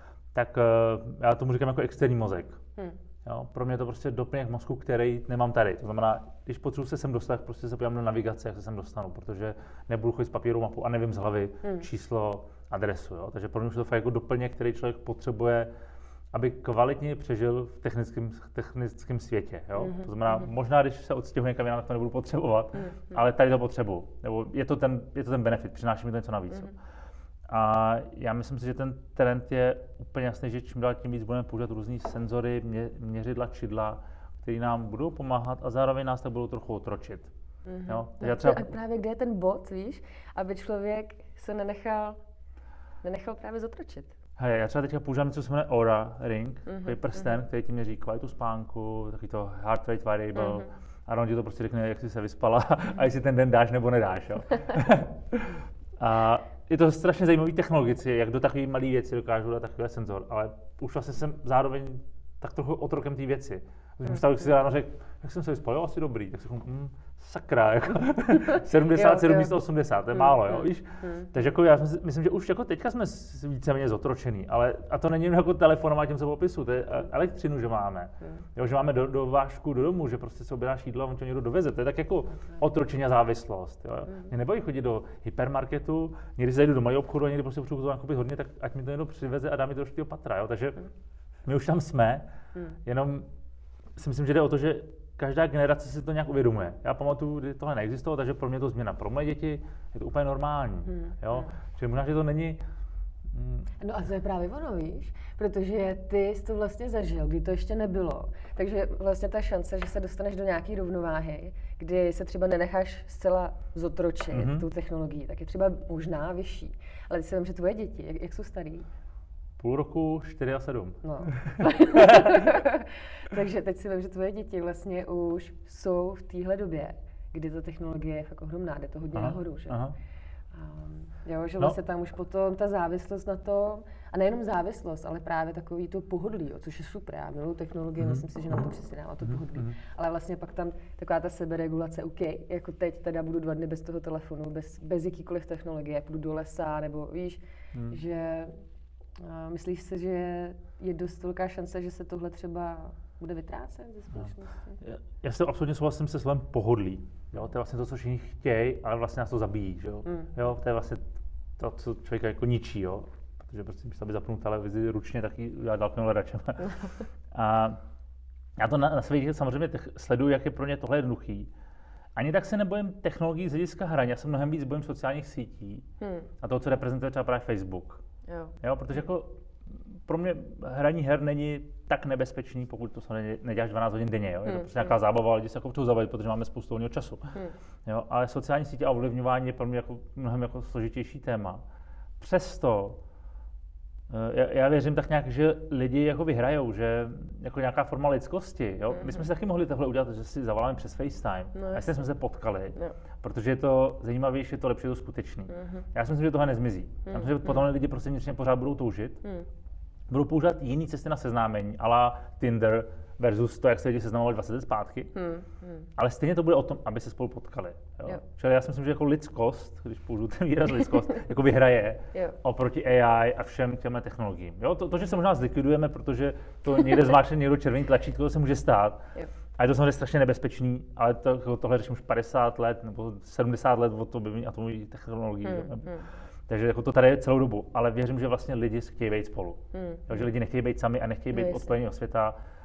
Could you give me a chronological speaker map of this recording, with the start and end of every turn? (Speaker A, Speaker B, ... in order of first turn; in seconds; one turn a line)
Speaker A: 0.3-2.6
Speaker A: 3.2-15.7
Speaker A: 16.3-26.8
Speaker B: 19.8-20.3
Speaker A: 27.5-37.3
Speaker B: 37.6-42.2
Speaker A: 37.9-38.7
Speaker B: 43.0-44.1
Speaker A: 44.4-90.8
Speaker B: 46.7-47.0
Speaker B: 50.4-50.7
Speaker B: 68.5-69.5
Speaker B: 70.2-71.3
Speaker A: 91.5-92.3
Speaker A: 92.9-93.3
Speaker A: 94.0-102.6
Speaker B: 100.9-101.5
Speaker A: 103.3-103.7
Speaker B: 103.8-118.9
Speaker A: 114.3-114.7
Speaker A: 119.6-122.6
Speaker B: 121.0-129.8
Speaker A: 129.1-129.9
Speaker B: 130.5-148.6
Speaker A: 138.0-138.7
Speaker A: 139.2-139.8
Speaker B: 149.2-154.8
Speaker A: 154.8-161.1
Speaker B: 160.1-160.3
Speaker A: 161.6-166.8
Speaker A: 167.3-167.8
Speaker A: 168.6-171.5
Speaker A: 172.2-175.9
Speaker B: 176.0-176.3
Speaker A: 176.4-178.0
Speaker B: 178.3-178.5
Speaker A: 178.6-187.3
Speaker B: 184.5-184.8
Speaker A: 187.9-191.6
Speaker A: 192.2-193.0
Speaker A: 194.1-209.2
Speaker B: 201.5-201.9
Speaker B: 205.5-205.8
Speaker B: 207.1-207.7
Speaker A: 210.1-215.1
Speaker B: 215.2-215.9
Speaker A: 216.0-229.1
Speaker A: 229.6-242.4
Speaker B: 235.4-236.1
Speaker B: 239.7-240.3
Speaker B: 241.3-241.7